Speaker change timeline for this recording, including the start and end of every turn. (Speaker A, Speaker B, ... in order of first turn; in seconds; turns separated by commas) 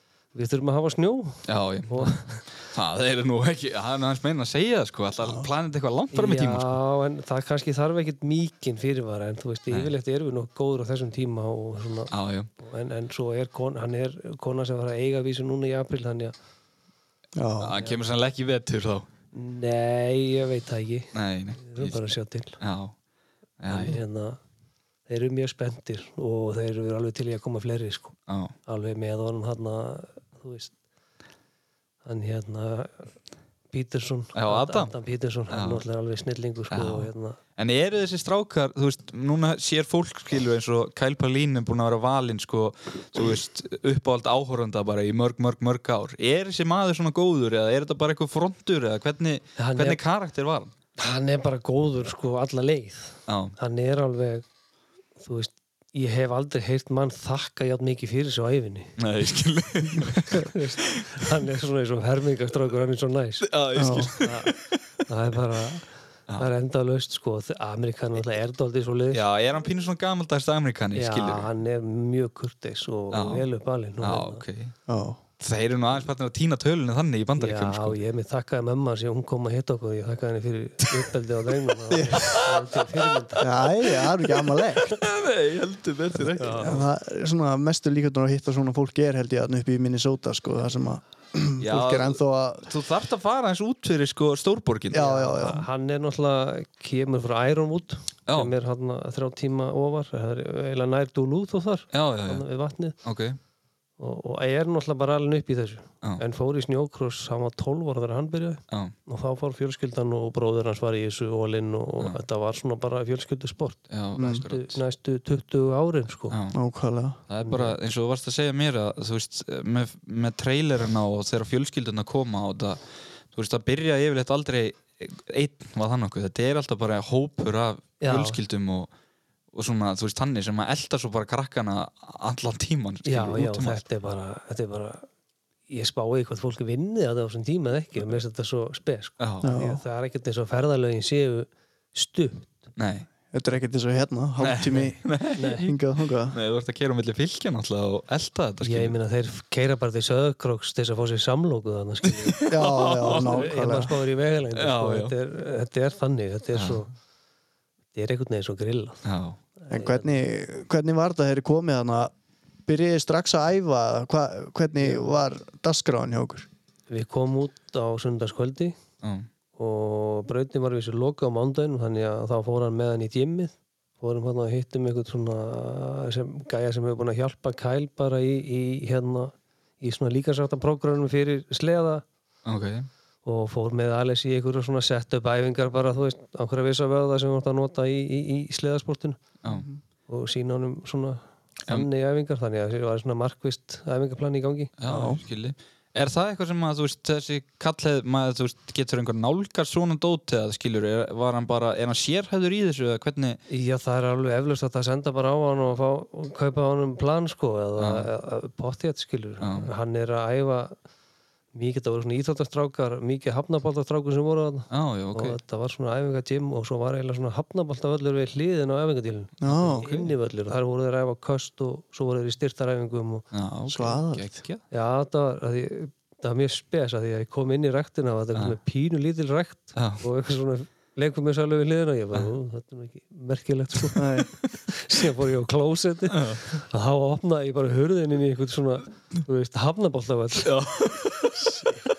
Speaker A: 0.3-2.4, Speaker B: 1.5-6.8, Speaker A: 6.1-16.3, Speaker B: 12.1-12.5, Speaker C: 17.4-17.8, Speaker B: 17.6-19.1, Speaker A: 19.3-22.6, Speaker B: 21.1-22.0, Speaker B: 22.6-22.9, Speaker B: 23.6-24.0, Speaker A: 23.7-24.4, Speaker A: 25.1-28.1, Speaker B: 28.3-28.5, Speaker A: 28.7-30.7, Speaker A: 32.0-33.1, Speaker A: 33.7-37.4, Speaker B: 34.4-34.9, Speaker B: 35.5-35.8, Speaker B: 36.7-50.7, Speaker A: 49.6-50.0, Speaker A: 51.0-54.5, Speaker B: 53.3-53.5, Speaker A: 55.2-58.9, Speaker B: 59.0-61.2, Speaker A: 60.2-63.5, Speaker B: 63.4-64.7, Speaker C: 63.8-64.1, Speaker A: 64.1-69.2, Speaker B: 69.1-71.5, Speaker A: 71.0-74.4, Speaker B: 73.1-73.5, Speaker B: 74.0-74.8, Speaker C: 74.9-75.2, Speaker B: 75.4-78.0, Speaker A: 77.4-83.5, Speaker C: 81.9-82.2, Speaker B: 82.2-82.8, Speaker C: 83.4-85.0, Speaker B: 83.8-86.8, Speaker C: 86.3-92.7, Speaker A: 86.3-86.8, Speaker B: 91.6-95.1, Speaker C: 94.9-95.7, Speaker A: 94.9-103.0, Speaker B: 98.3-98.5, Speaker B: 101.9-102.5, Speaker B: 103.0-103.4, Speaker A: 104.0-116.4, Speaker B: 113.9-114.8, Speaker C: 114.2-114.4, Speaker B: 116.3-116.6, Speaker C: 116.5-117.2, Speaker B: 117.3-122.8, Speaker A: 117.4-117.8, Speaker B: 123.3-128.9, Speaker A: 128.0-128.4, Speaker B: 129.5-133.8, Speaker A: 133.0-135.1, Speaker A: 135.7-142.7, Speaker B: 139.2-139.5, Speaker C: 139.4-139.8, Speaker B: 142.8-143.1, Speaker C: 143.3-145.1, Speaker B: 144.4-145.7, Speaker A: 145.4-145.7, Speaker C: 145.6-146.4, Speaker B: 146.3-148.9, Speaker A: 148.6-156.9, Speaker B: 152.1-153.5, Speaker C: 152.5-153.9, Speaker B: 154.5-155.1, Speaker B: 156.5-156.8, Speaker A: 157.9-159.0, Speaker B: 159.0-159.4, Speaker A: 159.6-160.1, Speaker C: 159.7-162.1, Speaker C: 162.7-166.5, Speaker A: 164.8-165.2, Speaker A: 166.9-168.8, Speaker B: 169.0-169.3, Speaker A: 169.6-182.0, Speaker B: 182.4-182.9, Speaker A: 183.2-189.2, Speaker C: 189.5-189.8, Speaker A: 190.1-194.7, Speaker B: 194.8-203.4, Speaker C: 194.9-195.2, Speaker A: 203.5-210.8, Speaker B: 207.8-208.1, Speaker B: 209.4-209.7, Speaker A: 211.5-223.2, Speaker B: 214.7-215.4, Speaker C: 219.4-220.0, Speaker B: 223.3-224.6, Speaker C: 223.7-224.3, Speaker A: 224.7-234.1, Speaker B: 229.8-230.0, Speaker C: 233.9-234.3, Speaker A: 234.7-240.6, Speaker B: 236.1-236.4, Speaker B: 240.4-241.6